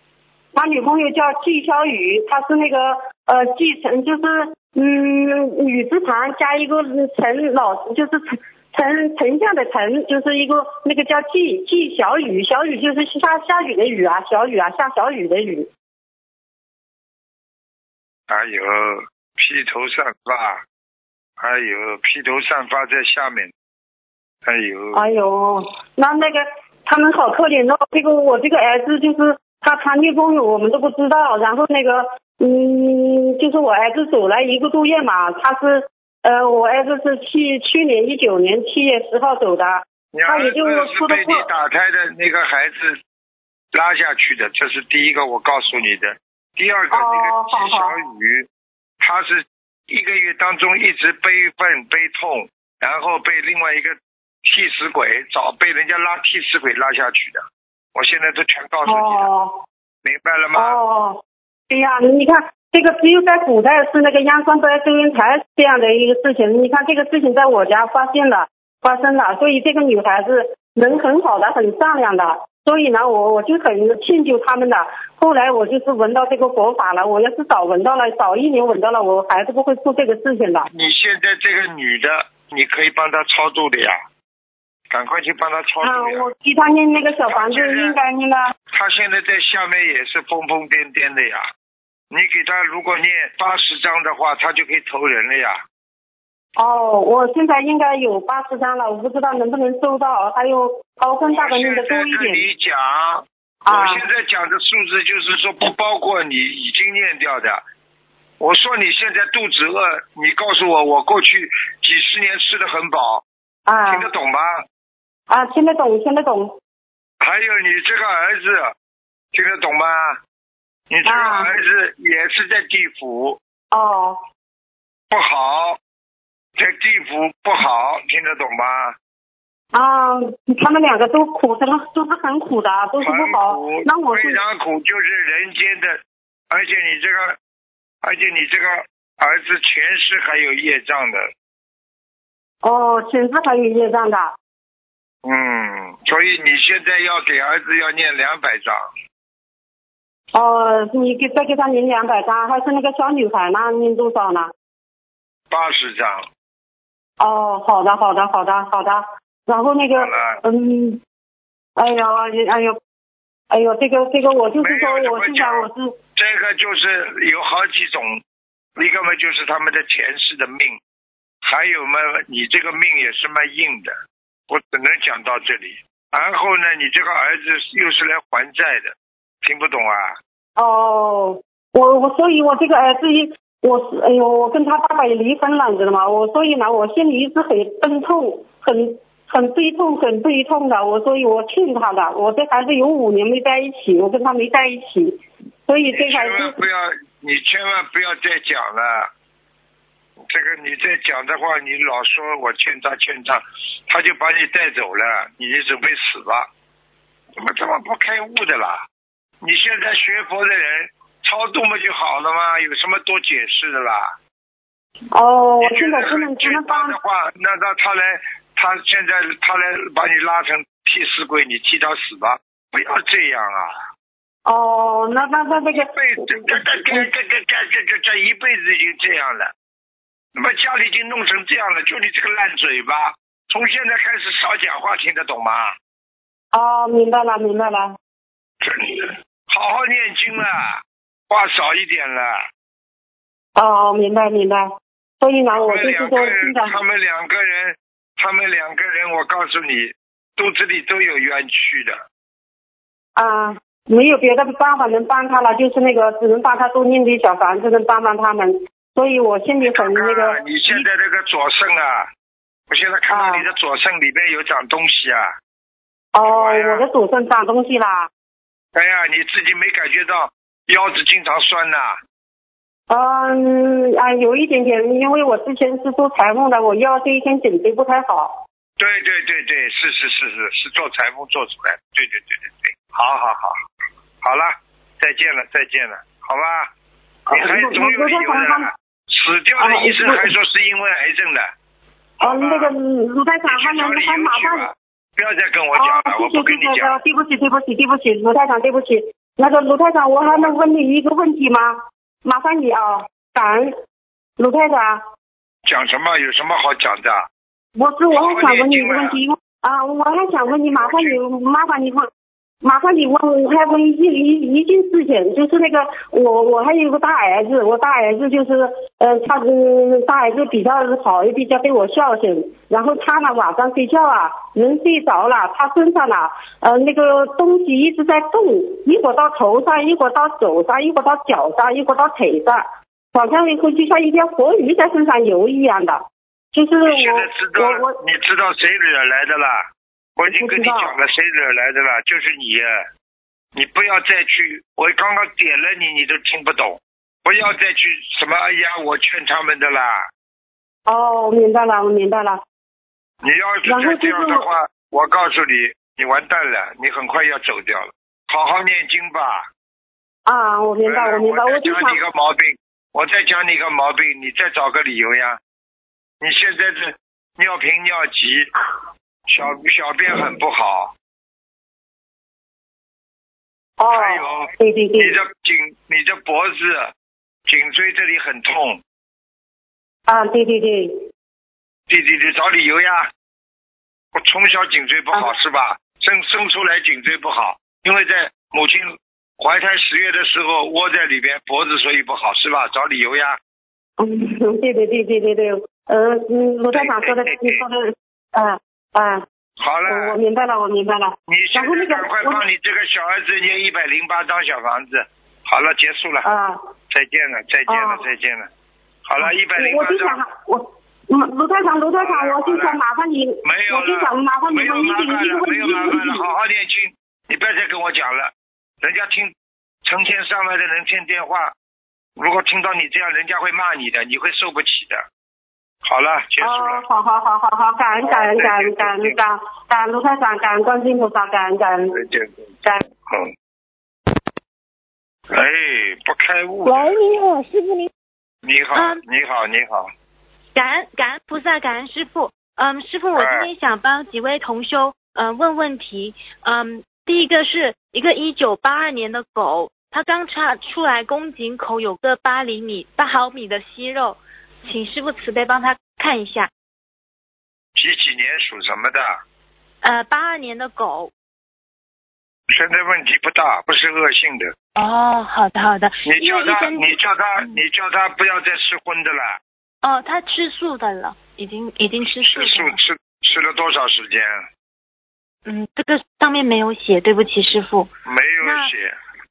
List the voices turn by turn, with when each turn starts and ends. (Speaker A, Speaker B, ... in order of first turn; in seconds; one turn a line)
Speaker A: 0.5-15.7
Speaker B: 18.3-20.6
Speaker B: 21.4-23.5
Speaker B: 24.4-25.0
Speaker A: 24.9-41.5
Speaker B: 40.1-43.0
Speaker B: 43.7-48.5
Speaker A: 46.9-47.9
Speaker B: 49.0-59.3
Speaker A: 58.9-59.5
Speaker B: 60.0-60.8
Speaker A: 60.5-80.7
Speaker B: 80.7-84.0
Speaker B: 84.9-86.2
Speaker A: 85.8-88.5
Speaker B: 87.3-88.0
Speaker B: 88.7-91.5
Speaker B: 92.1-95.6
Speaker A: 96.6-102.4
Speaker B: 101.3-107.6
Speaker A: 103.7-104.0
Speaker B: 108.4-113.2
Speaker A: 113.7-114.1
Speaker B: 113.9-114.6
Speaker A: 115.3-116.5
Speaker B: 117.2-118.7
Speaker B: 119.3-120.2
Speaker B: 120.9-123.4
Speaker A: 121.0-121.5
Speaker A: 123.7-124.2
Speaker B: 125.1-125.8
Speaker B: 126.5-128.9
Speaker A: 129.7-134.4
Speaker B: 133.0-137.4
Speaker B: 138.0-141.3
Speaker A: 142.6-144.3
Speaker B: 145.2-148.8
Speaker A: 150.3-154.5
Speaker B: 155.5-156.2
Speaker A: 157.2-161.0
Speaker B: 159.9-160.4
Speaker A: 161.8-162.8
Speaker A: 163.5-165.9
Speaker B: 164.6-168.2
Speaker B: 168.8-170.8
Speaker B: 171.4-173.9
Speaker B: 174.5-180.2
Speaker A: 180.6-196.6
Speaker B: 195.9-199.1
Speaker B: 200.2-206.5
Speaker B: 207.3-208.8
Speaker B: 209.4-214.1
Speaker A: 215.1-217.0
Speaker B: 215.6-223.7
Speaker A: 224.4-227.1
Speaker B: 225.7-229.5
Speaker B: 230.3-235.7
Speaker A: 236.5-238.0
Speaker B: 238.6-242.4
Speaker A: 243.6-244.7
Speaker A: 245.2-246.8
Speaker B: 245.5-252.0
Speaker A: 253.2-260.8
Speaker B: 259.6-262.1
Speaker B: 262.7-265.3
Speaker A: 263.1-263.4
Speaker A: 266.1-268.1
Speaker B: 266.2-266.8
Speaker B: 268.7-272.0
Speaker A: 272.9-278.3
Speaker B: 278.8-283.6
Speaker B: 284.2-286.7
Speaker A: 287.3-288.7
Speaker B: 287.3-291.5
Speaker A: 289.6-290.3
Speaker B: 292.2-292.7
Speaker A: 292.2-294.7
Speaker B: 293.5-297.0
Speaker A: 295.7-303.7
Speaker A: 304.4-305.0
Speaker B: 305.6-307.3
Speaker A: 307.8-312.1
Speaker B: 308.1-309.2
Speaker B: 310.5-311.2
Speaker A: 312.6-336.0
Speaker A: 336.5-338.0
Speaker B: 336.8-339.6
Speaker B: 340.2-342.8
Speaker A: 340.3-340.9
Speaker B: 343.5-350.1
Speaker A: 350.9-352.4
Speaker B: 353.2-359.4
Speaker A: 353.6-354.4
Speaker A: 360.2-362.0
Speaker B: 360.8-365.4
Speaker B: 366.2-368.5
Speaker B: 369.3-370.9
Speaker A: 373.8-375.1
Speaker B: 373.9-376.9
Speaker B: 377.4-378.8
Speaker A: 380.1-380.9
Speaker B: 381.9-383.1
Speaker B: 384.1-393.4
Speaker A: 394.0-399.2
Speaker B: 396.7-397.6
Speaker B: 399.6-400.2
Speaker A: 399.9-402.4
Speaker B: 401.3-406.3
Speaker A: 406.2-406.6
Speaker B: 406.9-408.5
Speaker A: 407.7-408.0
Speaker B: 409.1-410.2
Speaker A: 409.2-416.3
Speaker B: 412.0-412.8
Speaker B: 413.4-419.3
Speaker B: 419.8-421.5
Speaker B: 422.2-425.0
Speaker B: 425.8-426.8
Speaker A: 426.4-431.9
Speaker B: 428.0-429.2
Speaker B: 431.9-433.3
Speaker B: 435.3-437.0
Speaker C: 436.6-437.9
Speaker B: 438.4-439.9
Speaker C: 438.7-439.0
Speaker C: 440.5-456.5
Speaker B: 443.1-443.5
Speaker B: 457.7-459.2
Speaker C: 459.8-461.1
Speaker B: 462.5-464.5
Speaker C: 464.8-467.6
Speaker B: 466.0-469.4
Speaker C: 469.8-472.8
Speaker B: 472.2-474.4
Speaker C: 475.4-477.9
Speaker B: 478.0-478.9
Speaker C: 478.4-478.7